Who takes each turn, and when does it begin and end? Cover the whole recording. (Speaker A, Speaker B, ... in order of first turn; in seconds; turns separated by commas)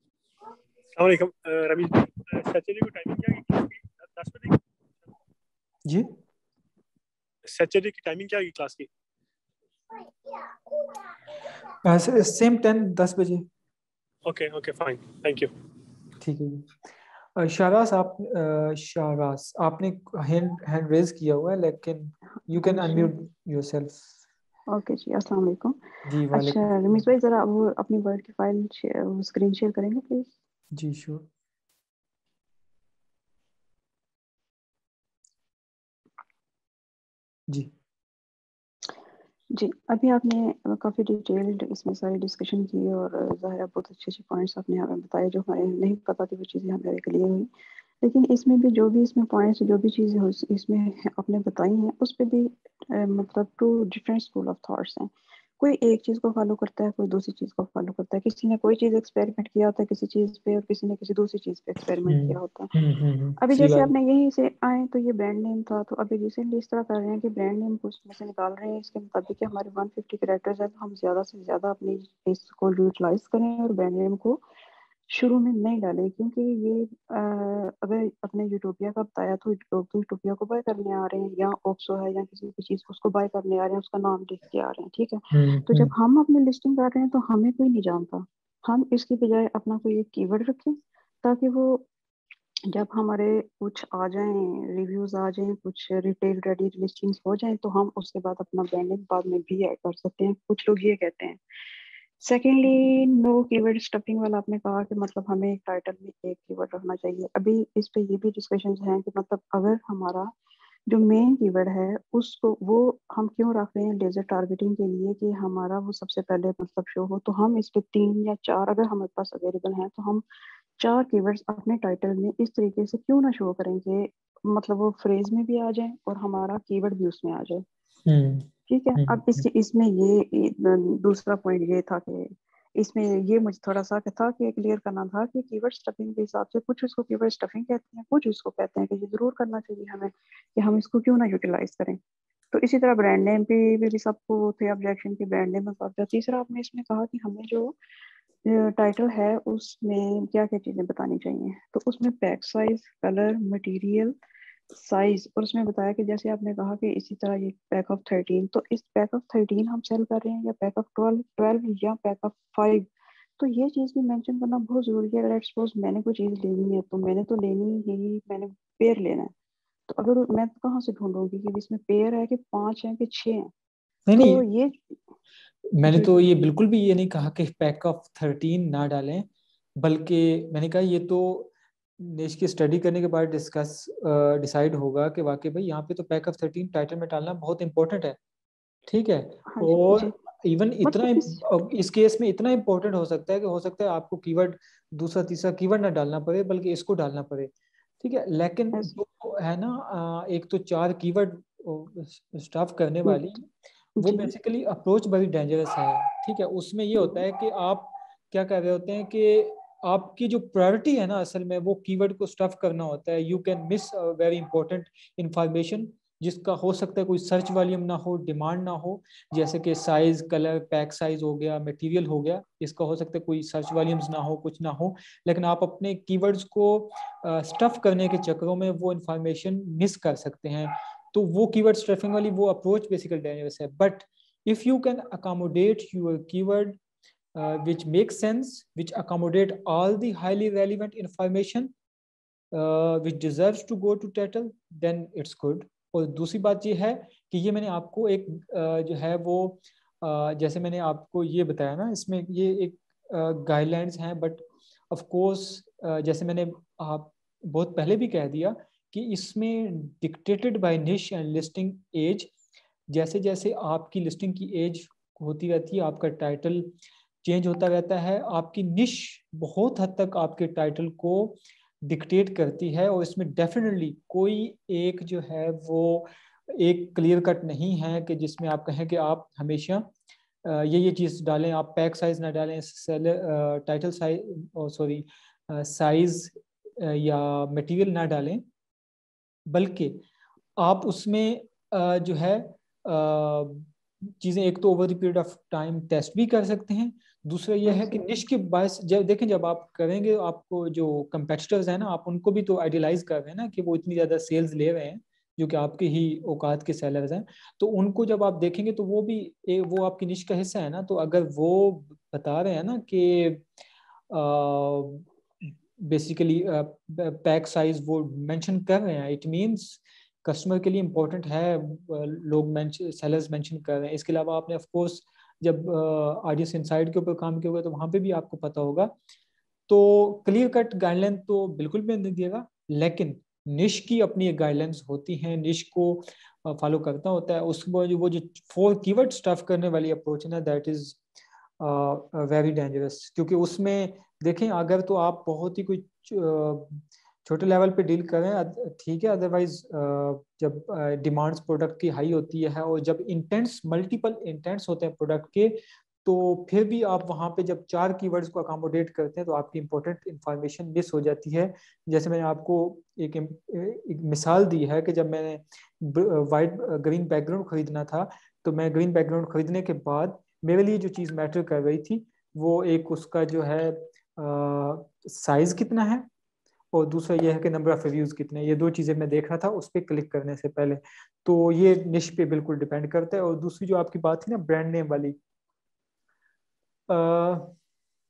Speaker A: 0.9-4.6, Speaker B: 5.9-6.1, Speaker A: 7.5-8.9, Speaker B: 11.8-13.4, Speaker A: 14.2-15.5, Speaker B: 16.2-16.8, Speaker B: 17.4-24.0, Speaker C: 22.5-23.1, Speaker C: 24.7-25.8, Speaker B: 26.1-26.7, Speaker C: 26.3-30.3, Speaker B: 30.8-31.2, Speaker C: 39.5-47.5, Speaker C: 48.0-62.7, Speaker B: 62.1-63.9, Speaker C: 63.4-74.4, Speaker C: 75.1-91.9, Speaker B: 85.3-85.9, Speaker C: 92.7-101.4, Speaker C: 102.2-110.3, Speaker C: 110.9-120.2, Speaker C: 120.8-127.6, Speaker B: 128.1-129.5, Speaker C: 128.7-142.0, Speaker C: 142.5-147.8, Speaker C: 148.4-154.1, Speaker C: 154.7-162.8, Speaker C: 163.4-169.3, Speaker C: 169.9-173.5, Speaker B: 174.1-174.4, Speaker C: 174.1-174.8, Speaker B: 175.8-179.3, Speaker C: 175.9-176.2, Speaker B: 179.8-188.2, Speaker B: 188.9-197.5, Speaker C: 189.5-190.2, Speaker C: 190.8-191.4, Speaker B: 198.0-203.5, Speaker C: 204.0-204.3, Speaker B: 204.0-236.8, Speaker B: 237.3-241.7, Speaker B: 242.5-262.3, Speaker B: 262.9-266.7, Speaker B: 267.2-279.9, Speaker B: 280.4-288.4, Speaker B: 289.5-290.0, Speaker B: 290.6-293.7, Speaker B: 294.2-313.4, Speaker C: 297.7-298.0, Speaker B: 314.1-328.9, Speaker B: 329.7-341.0, Speaker B: 341.6-376.1, Speaker B: 376.7-385.2, Speaker B: 386.9-387.5